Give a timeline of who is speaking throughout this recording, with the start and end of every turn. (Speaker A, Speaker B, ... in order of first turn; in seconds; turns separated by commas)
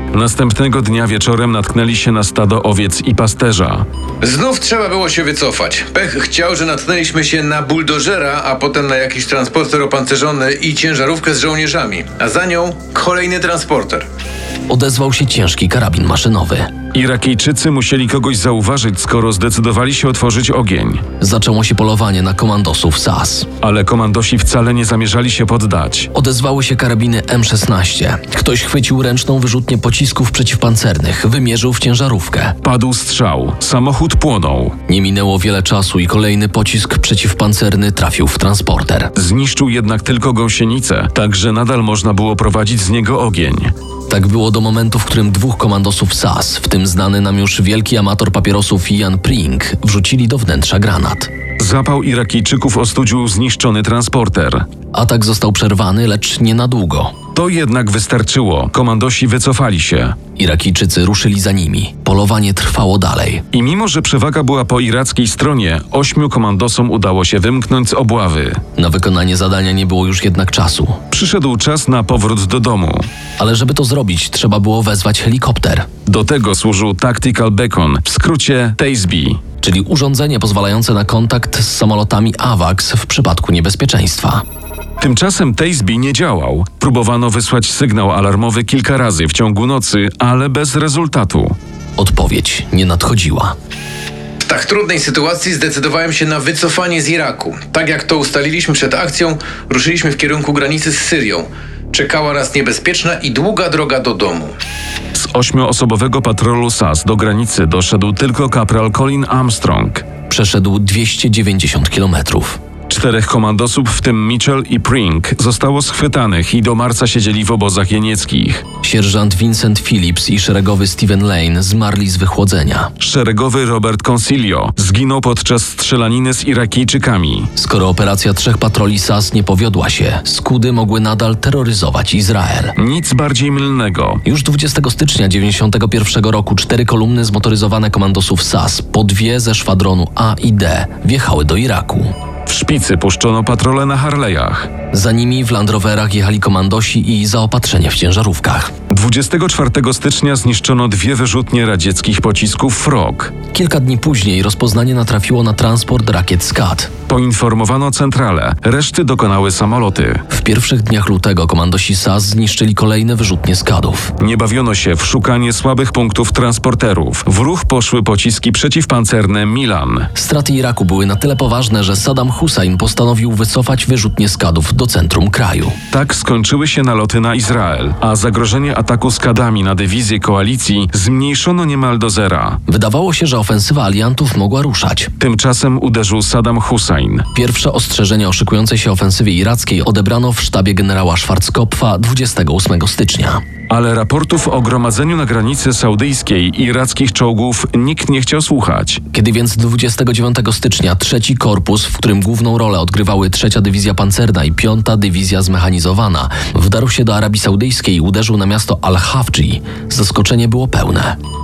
Speaker A: 0.1-3.9, Speaker B: 4.2-14.1, Speaker C: 14.7-16.7, Speaker A: 16.9-21.0, Speaker C: 21.2-23.5, Speaker A: 23.6-26.1, Speaker C: 26.1-32.6, Speaker A: 32.6-34.8, Speaker C: 34.9-39.1, Speaker A: 39.1-43.7, Speaker C: 44.1-51.3, Speaker A: 51.6-54.6, Speaker C: 54.9-57.1, Speaker A: 57.3-60.2, Speaker C: 60.4-63.4, Speaker A: 63.5-68.6, Speaker C: 68.8-71.0, Speaker A: 71.1-73.1, Speaker C: 73.4-75.9, Speaker A: 76.1-79.4, Speaker C: 79.6-84.4, Speaker A: 85.0-91.6, Speaker C: 92.0-93.5, Speaker B: 94.4-104.5, Speaker A: 105.2-110.1, Speaker C: 110.3-112.6, Speaker A: 112.9-118.6, Speaker C: 118.8-122.9, Speaker A: 123.0-127.5, Speaker C: 127.6-132.8, Speaker A: 132.8-134.2, Speaker C: 134.2-142.1, Speaker A: 142.5-144.7, Speaker C: 144.9-148.7, Speaker A: 148.9-153.3, Speaker C: 153.5-156.9, Speaker A: 157.1-160.2, Speaker C: 160.3-164.1, Speaker A: 164.2-170.1, Speaker C: 170.2-175.8, Speaker A: 175.9-182.6, Speaker C: 182.7-185.1, Speaker A: 185.2-187.2, Speaker C: 187.3-193.4, Speaker A: 193.7-199.0, Speaker C: 199.1-211.2